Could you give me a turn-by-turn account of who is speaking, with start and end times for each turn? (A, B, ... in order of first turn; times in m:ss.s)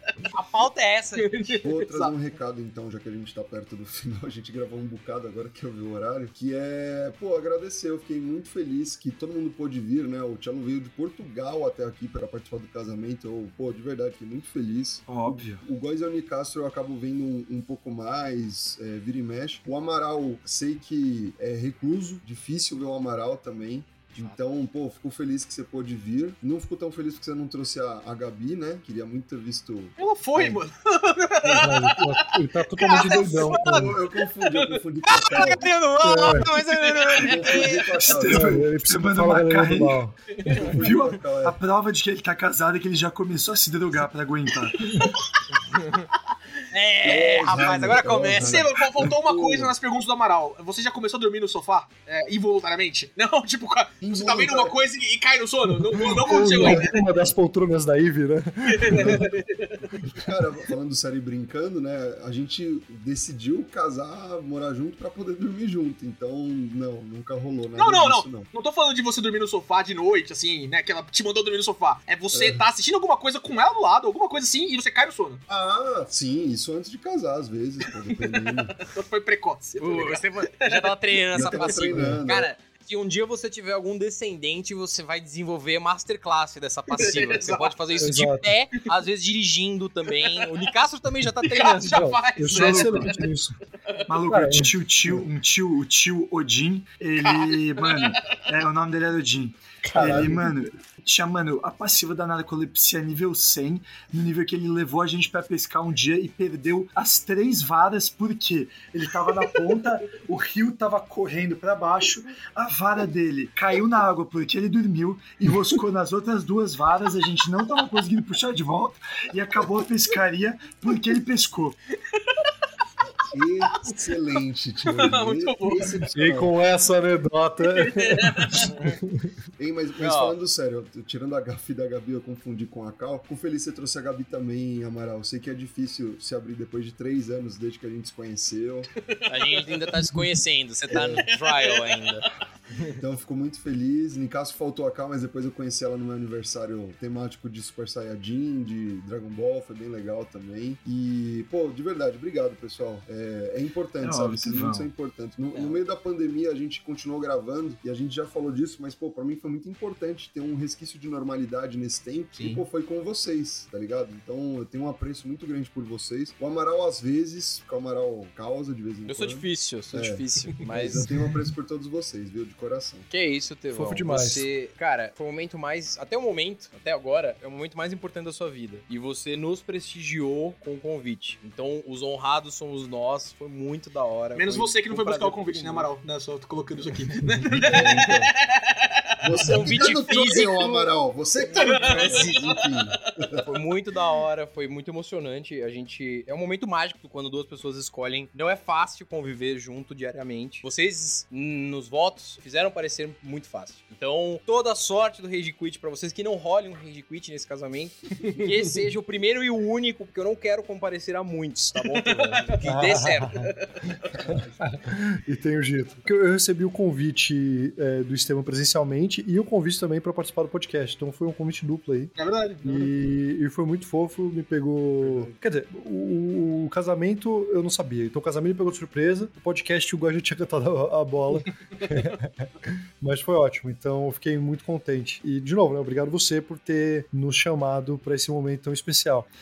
0:00.3-0:01.4 A
0:01.2-0:02.1 B
0:01.6-0:30.6 C
0:15.1-0:15.6 D
0:30.0-0:32.2 B
0:31.4-0:33.9 E
0:32.8-0:37.0 B
0:33.4-0:35.6 C
0:35.3-0:38.2 A
0:36.0-0:36.5 E
0:37.2-0:38.7 C
0:38.0-0:40.0 D
0:38.3-0:40.7 E
0:40.4-0:40.7 B
0:40.5-0:41.6 C
0:40.8-0:44.9 D
0:44.8-0:45.1 E
0:46.7-0:48.6 A
0:47.0-0:49.7 C
0:48.4-0:57.0 B
0:54.0-0:54.8 C
0:56.1-0:59.3 E
0:56.5-0:56.9 C
0:58.7-0:59.9 B
1:00.1-1:08.5 C
1:07.8-1:15.4 B
1:12.3-1:12.6 C
1:15.5-1:18.8 C
1:18.1-1:21.8 B
1:19.8-1:32.1 A
1:21.3-1:22.5 C
1:21.9-1:22.2 E
1:26.9-1:28.0 B
1:28.0-1:28.5 E
1:31.4-1:33.2 B
1:31.9-1:33.6 E
1:32.5-1:33.1 D
1:34.1-2:01.8 D
1:34.2-1:35.2 E
1:37.2-1:38.4 B
1:39.8-1:40.5 E
1:40.0-1:40.3 C
2:02.2-2:02.5 B
2:03.3-2:06.5 C
2:04.8-2:06.0 B
2:06.2-2:09.3 E
2:07.6-2:08.8 B
2:09.6-2:18.9 C
2:10.0-2:10.4 A
2:19.0-2:19.7 B
2:19.3-2:22.3 A
2:20.9-2:21.2 C
2:20.9-2:21.9 B
2:22.9-2:53.1 C
2:34.0-2:34.9 D
2:35.5-2:35.8 A
2:49.1-2:51.1 A
2:53.1-3:05.9 A
2:53.7-2:54.5 E
3:04.3-3:08.9 B
3:07.6-3:08.3 C
3:09.2-3:13.4 C
3:09.3-3:10.9 A
3:11.5-3:12.3 A
3:11.6-3:12.6 B
3:13.4-3:33.5 A
3:32.0-3:32.6 B
3:32.6-3:33.5 E
3:34.1-3:34.8 C
3:34.3-3:59.3 E
3:42.2-3:42.9 B
3:45.0-3:45.4 C